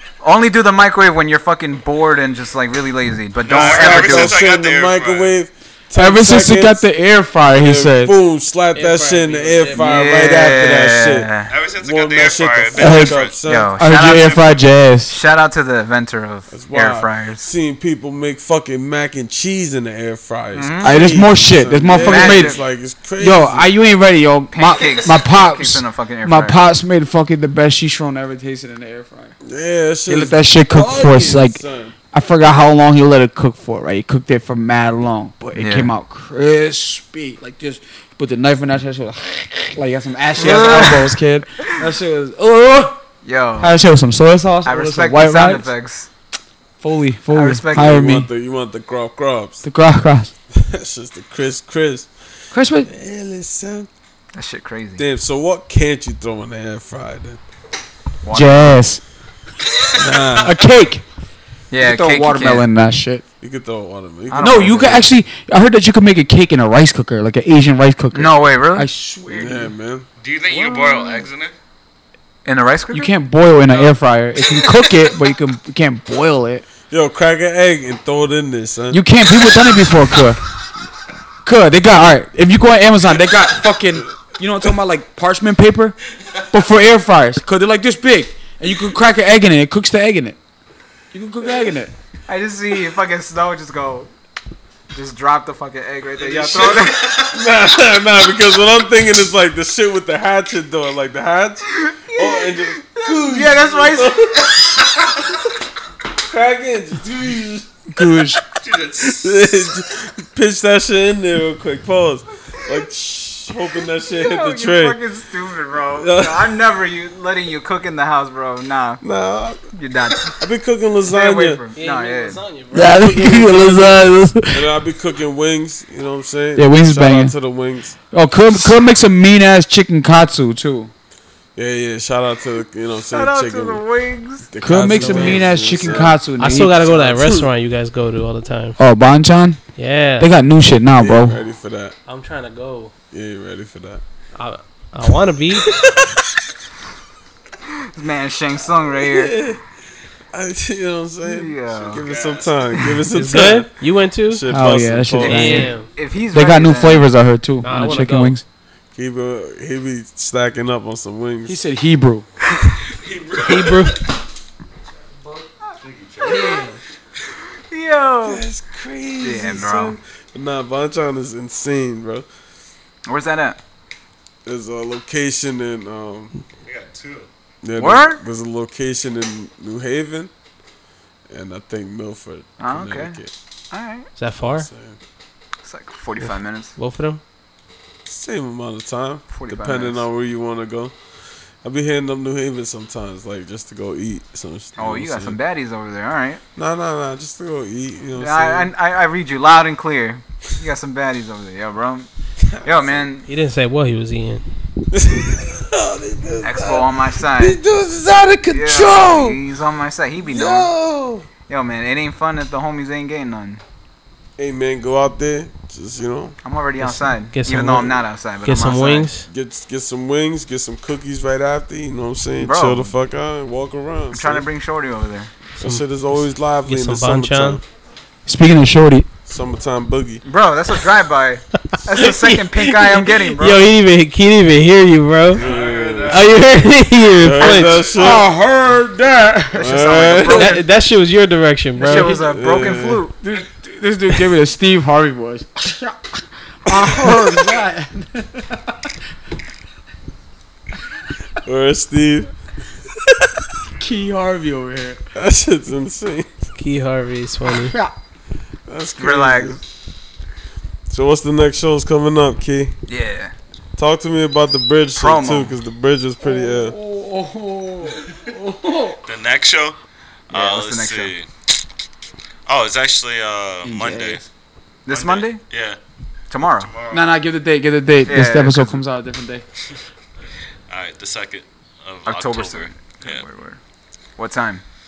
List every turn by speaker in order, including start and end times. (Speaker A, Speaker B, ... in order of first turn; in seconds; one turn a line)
Speaker A: 0.2-4.4
Speaker B: 3.4-5.3
Speaker C: 3.5-6.9
Speaker D: 6.0-8.2
Speaker C: 7.5-13.7
Speaker E: 8.8-10.1
Speaker A: 9.7-11.5
Speaker B: 11.5-13.4
Speaker D: 12.8-13.2
Speaker A: 13.4-17.5
Speaker D: 13.8-15.2
Speaker C: 16.5-23.7
Speaker A: 20.5-21.0
Speaker D: 20.8-22.6
Speaker A: 22.0-22.6
Speaker D: 23.2-29.4
Speaker A: 24.5-26.6
Speaker C: 29.4-32.0
Speaker D: 30.1-43.0
Speaker A: 35.5-35.9
Speaker A: 40.4-41.9
Speaker A: 43.2-43.8
Speaker D: 43.6-45.7
Speaker A: 44.6-46.1
Speaker D: 46.8-48.3
Speaker A: 47.3-48.1
Speaker C: 47.7-49.6
Speaker D: 49.6-50.3
Speaker C: 50.5-52.1
Speaker D: 52.5-52.9
Speaker C: 52.9-53.9
Speaker A: 54.3-55.0
Speaker C: 55.0-57.4
Speaker A: 58.2-58.8
Speaker D: 58.3-59.0
Speaker C: 60.0-60.5
Speaker D: 60.3-61.0
Speaker A: 61.7-62.7
Speaker D: 61.8-63.2
Speaker C: 63.4-65.0
Speaker A: 64.3-65.1
Speaker D: 64.4-69.7
Speaker A: 68.1-68.9
Speaker C: 69.3-70.1
Speaker B: 70.2-71.5
Speaker A: 72.5-73.1
Speaker D: 72.9-76.7
Speaker B: 73.7-74.0
Speaker C: 76.9-79.0
Speaker D: 78.9-80.4
Speaker D: 81.4-86.0
Speaker D: 86.5-90.4
Speaker D: 91.1-91.9
Speaker A: 92.3-94.1
Speaker A: 94.9-97.2
Speaker B: 96.2-97.3
Speaker C: 97.3-104.5
Speaker A: 101.7-104.4
Speaker C: 106.3-107.8
Speaker D: 107.9-108.4
Speaker B: 108.5-109.4
Speaker C: 109.0-115.0
Speaker A: 114.0-119.0
Speaker C: 116.0-116.5
Speaker C: 119.0-119.6
Speaker A: 119.7-120.4
Speaker C: 120.4-121.6
Speaker A: 121.1-122.4
Speaker E: 121.8-124.0
Speaker D: 122.7-124.7
Speaker C: 124.5-128.0
Speaker D: 126.6-127.3
Speaker D: 128.1-130.9
Speaker C: 131.6-133.8
Speaker A: 133.1-134.5
Speaker C: 134.5-136.2
Speaker D: 134.6-136.7
Speaker E: 134.9-135.6
Speaker E: 136.4-138.8
Speaker C: 136.8-137.5
Speaker D: 138.8-139.6
Speaker E: 139.8-140.3
Speaker D: 140.2-141.4
Speaker C: 141.0-141.9
Speaker E: 142.1-142.9
Speaker C: 143.1-144.0
Speaker E: 144.3-145.7
Speaker A: 147.8-149.4
Speaker C: 148.9-149.6
Speaker C: 150.3-155.7
Speaker A: 151.2-152.0
Speaker B: 151.8-152.8
Speaker E: 153.1-154.4
Speaker D: 154.5-155.8
Speaker E: 155.2-155.9
Speaker A: 155.3-157.1
Speaker D: 156.3-158.4
Speaker E: 157.6-158.4
Speaker C: 158.9-161.6
Speaker D: 161.5-162.3
Speaker B: 162.9-164.0
Speaker E: 163.4-164.1
Speaker B: 165.2-166.7
Speaker A: 166.2-166.7
Speaker A: 167.7-168.4
Speaker C: 168.2-172.3
Speaker A: 169.2-170.0
Speaker A: 173.1-173.6
Speaker C: 174.4-176.3
Speaker B: 176.7-177.3
Speaker C: 177.6-180.3
Speaker A: 177.8-178.2
Speaker C: 181.3-183.3
Speaker A: 182.6-183.2
Speaker A: 183.7-184.1
Speaker E: 184.2-184.7
Speaker C: 184.4-185.0
Speaker A: 185.6-186.7
Speaker E: 186.8-187.2
Speaker C: 188.1-190.9
Speaker A: 189.3-190.1
Speaker C: 191.6-195.4
Speaker A: 194.8-196.4
Speaker C: 196.6-198.7
Speaker A: 198.2-202.1
Speaker C: 202.5-203.0
Speaker A: 202.6-203.3
Speaker E: 203.3-204.4
Speaker C: 204.9-209.4
Speaker A: 206.4-207.6
Speaker A: 208.5-210.7
Speaker C: 210.2-211.3
Speaker A: 211.5-213.6
Speaker C: 214.4-216.4
Speaker A: 216.4-219.1
Speaker E: 216.8-219.3
Speaker C: 219.3-224.5
Speaker A: 222.4-222.9
Speaker A: 224.1-225.3
Speaker C: 225.6-227.6
Speaker E: 225.6-225.9
Speaker E: 226.7-227.6
Speaker D: 228.3-229.1
Speaker C: 229.3-230.2
Speaker A: 230.2-233.7
Speaker E: 231.7-235.4
Speaker B: 235.3-236.4
Speaker C: 235.3-236.3
Speaker E: 236.1-237.9
Speaker C: 237.2-238.3
Speaker B: 237.4-238.3
Speaker D: 237.9-239.7
Speaker A: 239.5-240.7
Speaker C: 239.6-240.6
Speaker E: 240.2-242.2
Speaker A: 241.8-243.2
Speaker D: 241.8-242.2
Speaker C: 242.3-243.1
Speaker D: 243.2-248.8
Speaker C: 251.4-252.3
Speaker D: 253.8-255.0
Speaker C: 255.2-256.4
Speaker E: 256.6-257.8
Speaker D: 257.6-257.9
Speaker C: 258.7-259.6
Speaker A: 259.0-259.6
Speaker C: 260.9-262.8
Speaker A: 262.9-263.3
Speaker C: 263.8-266.8
Speaker A: 264.9-265.6
Speaker D: 266.2-269.0
Speaker B: 269.1-269.8
Speaker B: 270.3-271.3
Speaker A: 270.3-271.1
Speaker B: 272.5-274.2
Speaker D: 273.6-274.3
Speaker A: 274.9-275.4
Speaker B: 274.9-275.8
Speaker A: 276.3-276.7
Speaker B: 276.5-277.1
Speaker D: 276.9-279.5
Speaker A: 278.1-278.8
Speaker B: 280.7-283.2
Speaker A: 282.1-283.6
Speaker A: 284.2-284.6